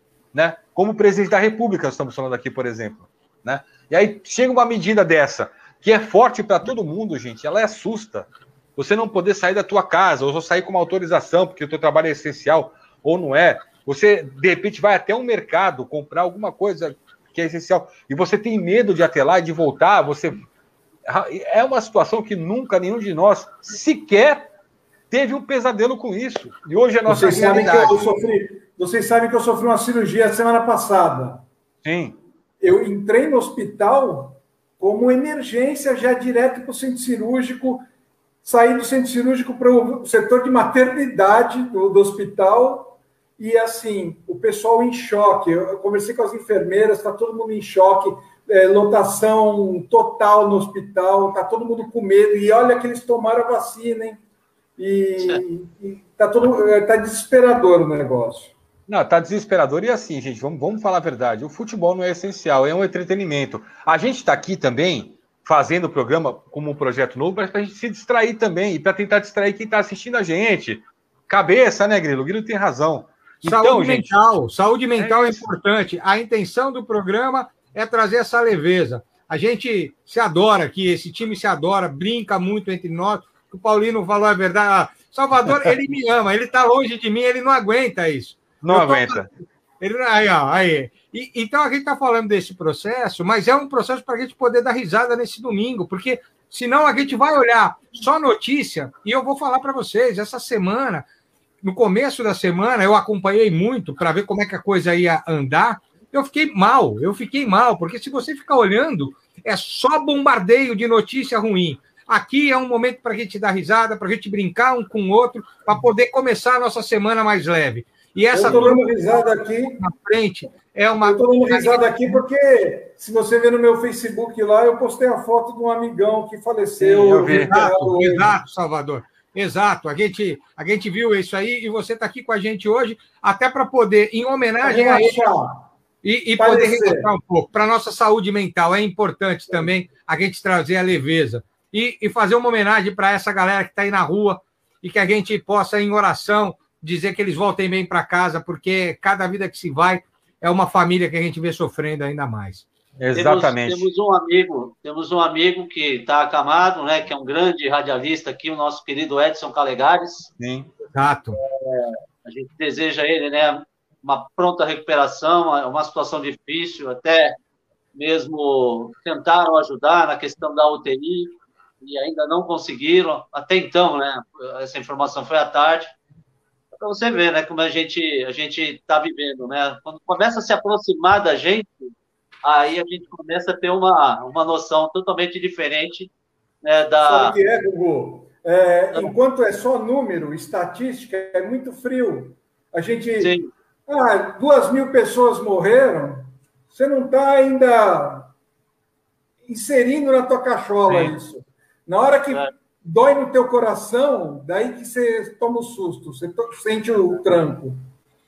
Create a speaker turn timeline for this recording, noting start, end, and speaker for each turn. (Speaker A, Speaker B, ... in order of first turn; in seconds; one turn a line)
Speaker A: 0.3-20.4
Speaker A: 21.1-24.5
Speaker A: 25.1-28.1
Speaker B: 27.1-31.4
Speaker A: 31.8-32.2
Speaker B: 32.6-37.8
Speaker B: 38.4-54.2
Speaker B: 54.8-58.5
Speaker A: 58.9-74.1
Speaker C: 73.5-89.3
Speaker A: 75.0-75.5
Speaker A: 88.6-89.3
Speaker C: 89.8-101.0
Speaker C: 101.6-118.9
Speaker B: 118.3-119.8
Speaker A: 118.4-118.7
Speaker C: 119.8-122.2
Speaker B: 121.0-128.4
Speaker A: 126.8-127.5
Speaker C: 127.3-135.3
Speaker B: 134.6-135.7
Speaker C: 136.0-152.7
Speaker B: 136.4-137.1
Speaker A: 153.0-153.9
Speaker D: 153.1-160.3
Speaker A: 160.4-160.7
Speaker C: 160.9-161.4
Speaker D: 161.4-167.4
Speaker D: 167.9-175.9
Speaker D: 176.8-181.9
Speaker D: 182.4-186.1
Speaker D: 186.6-187.4
Speaker B: 187.0-193.3
Speaker D: 193.2-193.5
Speaker B: 193.9-198.3
Speaker B: 199.5-207.8
Speaker D: 200.9-201.1